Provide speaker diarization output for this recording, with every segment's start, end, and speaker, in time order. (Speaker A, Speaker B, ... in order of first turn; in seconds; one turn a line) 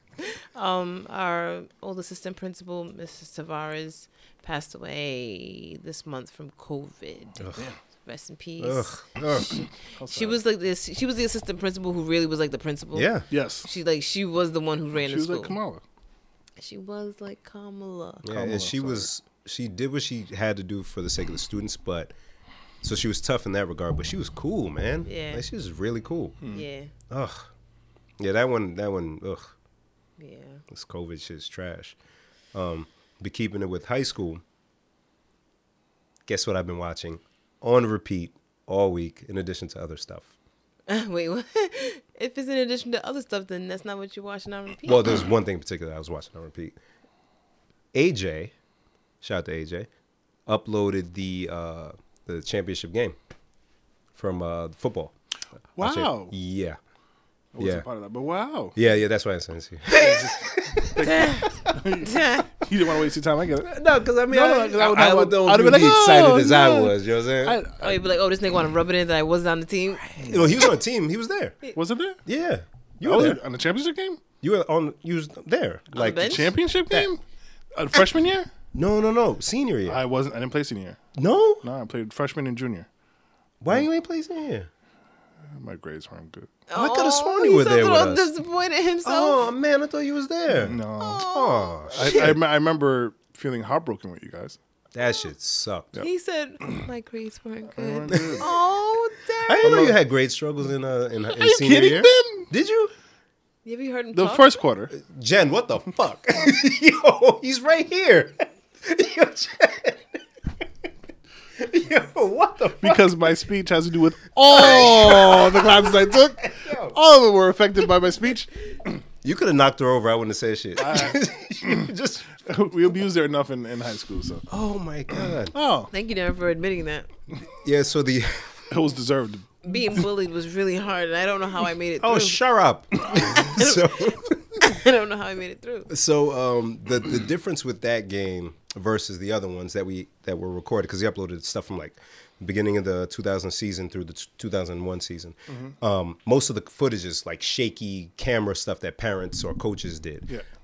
Speaker A: 0.2-7.5
Speaker B: 7.4-7.7
Speaker A: 8.0-13.1
Speaker B: 8.6-9.6
Speaker C: 10.0-10.4
Speaker B: 12.9-13.3
Speaker C: 13.3-13.7
Speaker A: 13.6-15.6
Speaker C: 14.9-15.8
Speaker A: 16.6-18.2
Speaker B: 18.2-22.1
Speaker C: 18.3-19.1
Speaker B: 22.8-26.4
Speaker A: 25.1-25.4
Speaker A: 26.5-26.9
Speaker B: 27.1-27.5
Speaker B: 28.2-29.5
Speaker A: 30.2-30.6
Speaker B: 30.7-31.9
Speaker B: 32.5-34.4
Speaker B: 36.2-40.3
Speaker A: 40.9-45.2
Speaker B: 44.8-46.8
Speaker B: 47.9-48.5
Speaker B: 49.2-49.9
Speaker B: 50.5-53.1
Speaker B: 54.1-55.1
Speaker C: 55.8-56.3
Speaker B: 55.8-56.8
Speaker C: 57.5-58.8
Speaker B: 57.6-57.9
Speaker B: 58.8-61.2
Speaker A: 59.9-60.3
Speaker C: 60.9-68.0
Speaker A: 61.0-62.6
Speaker B: 63.7-67.6
Speaker A: 67.8-70.1
Speaker C: 70.0-70.7
Speaker B: 70.2-71.6
Speaker C: 71.7-72.2
Speaker B: 72.2-73.4
Speaker C: 73.0-74.2
Speaker B: 74.4-77.1
Speaker A: 75.9-76.5
Speaker C: 76.2-77.2
Speaker C: 77.7-78.5
Speaker B: 78.7-80.0
Speaker C: 79.9-81.0
Speaker B: 81.1-81.6
Speaker C: 81.6-82.9
Speaker B: 83.6-84.7
Speaker C: 85.5-86.5
Speaker A: 86.7-89.5
Speaker B: 86.7-88.3
Speaker B: 89.0-92.4
Speaker C: 90.5-91.3
Speaker A: 91.0-92.3
Speaker C: 91.9-94.6
Speaker B: 94.9-95.9
Speaker A: 96.0-99.9
Speaker C: 97.7-98.5
Speaker B: 98.1-98.4
Speaker B: 99.5-102.9
Speaker C: 99.6-99.9
Speaker C: 101.3-102.5
Speaker A: 103.6-104.6
Speaker C: 104.1-104.9
Speaker B: 104.9-110.0
Speaker B: 111.6-113.1
Speaker C: 112.8-118.5
Speaker B: 114.5-117.0
Speaker B: 119.2-122.2
Speaker C: 120.8-124.5
Speaker B: 124.5-125.5
Speaker C: 125.5-125.9
Speaker A: 125.9-127.1
Speaker B: 127.6-128.7
Speaker C: 128.7-129.6
Speaker A: 129.6-132.4
Speaker B: 132.0-134.6
Speaker A: 133.3-135.9
Speaker B: 135.9-150.3
Speaker C: 145.5-145.8